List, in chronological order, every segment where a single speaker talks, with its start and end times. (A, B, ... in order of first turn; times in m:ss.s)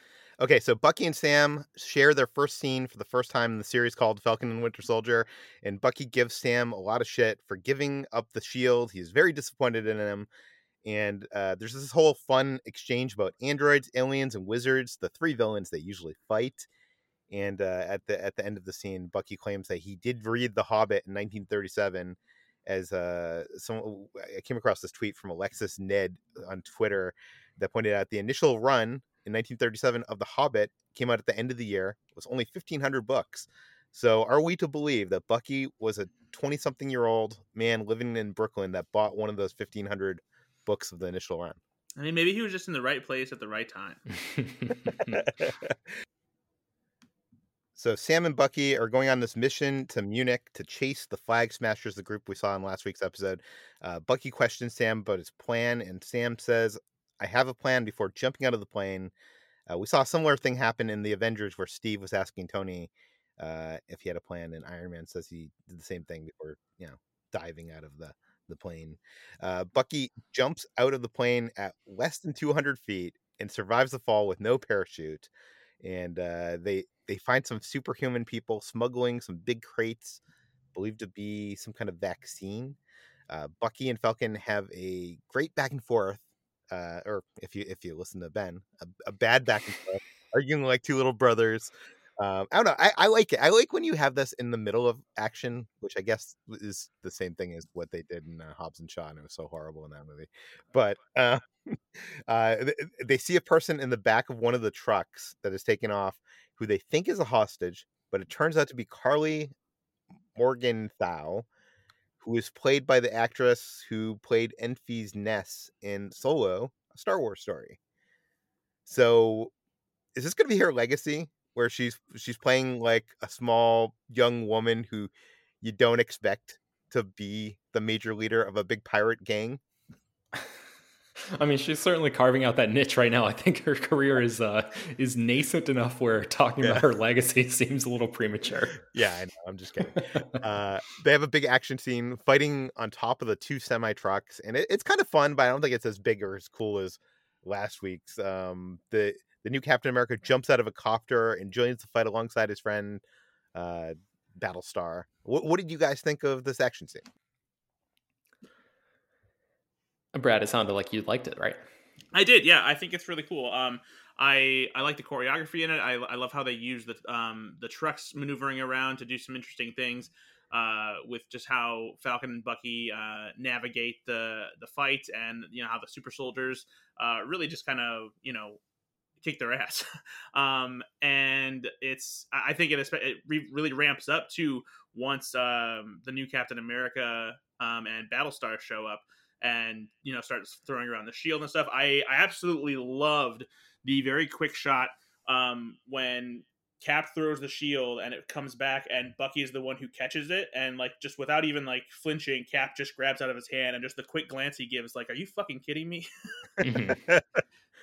0:00.4-0:10.3 A
0:10.8-0:16.7 A
0:17.3-0:41.6 A
0:42.0-0:44.0 B
0:44.2-0:45.2 C
0:44.8-0:45.7 A
0:47.8-0:59.1 A
0:59.7-1:15.3 A
1:15.8-1:20.2 A
1:20.7-1:22.8 A
1:23.3-1:49.5 A
1:50.3-1:51.5 A
1:52.2-1:57.8 A
1:58.8-1:59.5 A
2:00.1-2:09.6 A
2:11.3-2:18.8 C
2:18.8-2:37.1 A
2:19.9-2:20.4 C
2:40.1-2:41.6 C
2:42.1-2:58.6 B
2:59.2-3:26.1 B
3:26.6-3:27.0 C
3:26.6-3:27.4 A